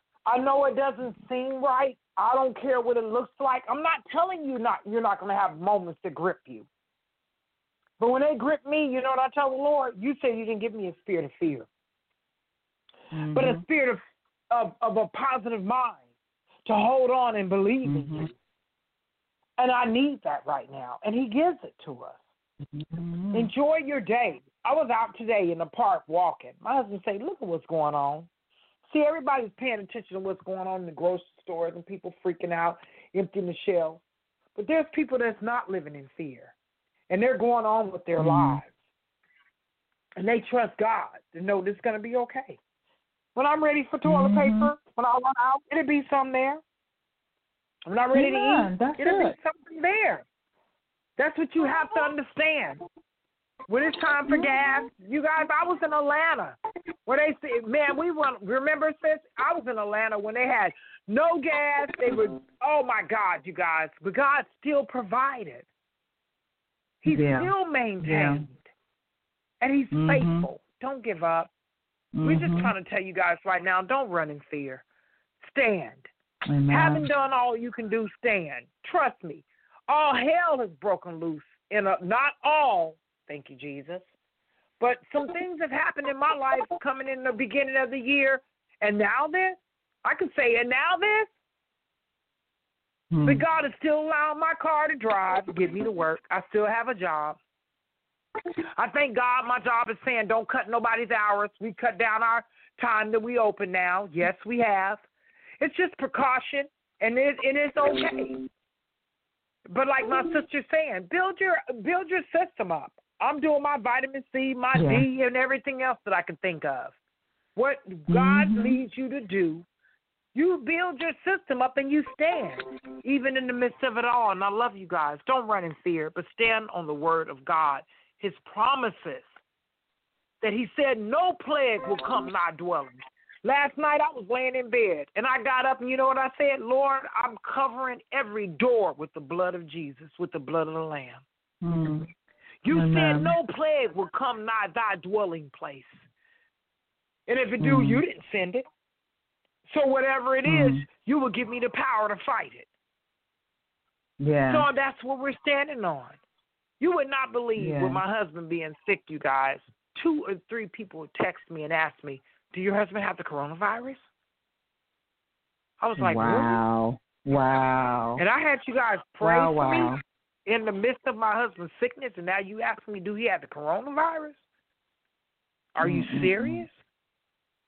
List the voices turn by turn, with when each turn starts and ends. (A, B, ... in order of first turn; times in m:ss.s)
0:00.3-0:06.7 A
0:08.0-0:11.7 A
0:13.1-0:13.6 B
0:13.3-0:16.0 A
0:16.6-0:18.3 A
0:17.9-0:18.3 B
0:19.6-0:22.2 A
0:22.7-0:23.5 B
0:23.3-0:28.3 A
0:28.9-0:34.0 A
0:34.6-0:36.5 A
0:37.1-0:38.7 A
0:38.2-0:38.6 B
0:40.2-0:42.6 A
0:43.4-0:46.6 A
0:44.0-0:44.7 B
0:47.9-0:50.3 A
0:48.1-0:49.4 B
0:51.2-0:52.8 A
0:53.7-1:05.7 A
1:07.0-1:08.7 A
1:07.1-1:07.5 B
1:08.0-1:08.5 B
1:09.6-1:11.5 A
1:09.9-1:10.5 B
1:12.2-1:12.7 B
1:12.2-1:14.8 A
1:15.4-1:16.1 A
1:16.5-1:17.0 B
1:16.7-1:24.0 A
1:24.8-1:31.3 A
1:33.1-1:33.4 B
1:33.2-1:37.4 A
1:38.8-1:45.0 A
1:45.6-1:48.4 A
1:49.7-1:57.0 A
1:54.8-1:55.1 B
1:57.6-1:59.7 A
1:58.1-1:58.8 B
2:00.3-2:09.3 A
2:10.4-2:21.2 A
2:21.6-2:22.1 B
2:22.6-2:25.9 A
2:22.7-2:23.4 B
2:27.3-2:28.6 A
2:27.6-2:28.0 B
2:29.7-2:32.7 A
2:30.5-2:30.8 B
2:34.2-2:34.7 B
2:34.5-2:36.2 A
2:36.8-2:44.0 A
2:37.6-2:38.0 B
2:45.8-2:46.6 A
2:46.0-2:48.2 B
2:48.2-2:54.4 A
2:49.2-2:50.0 B
2:55.8-2:56.7 A
2:55.8-2:56.6 B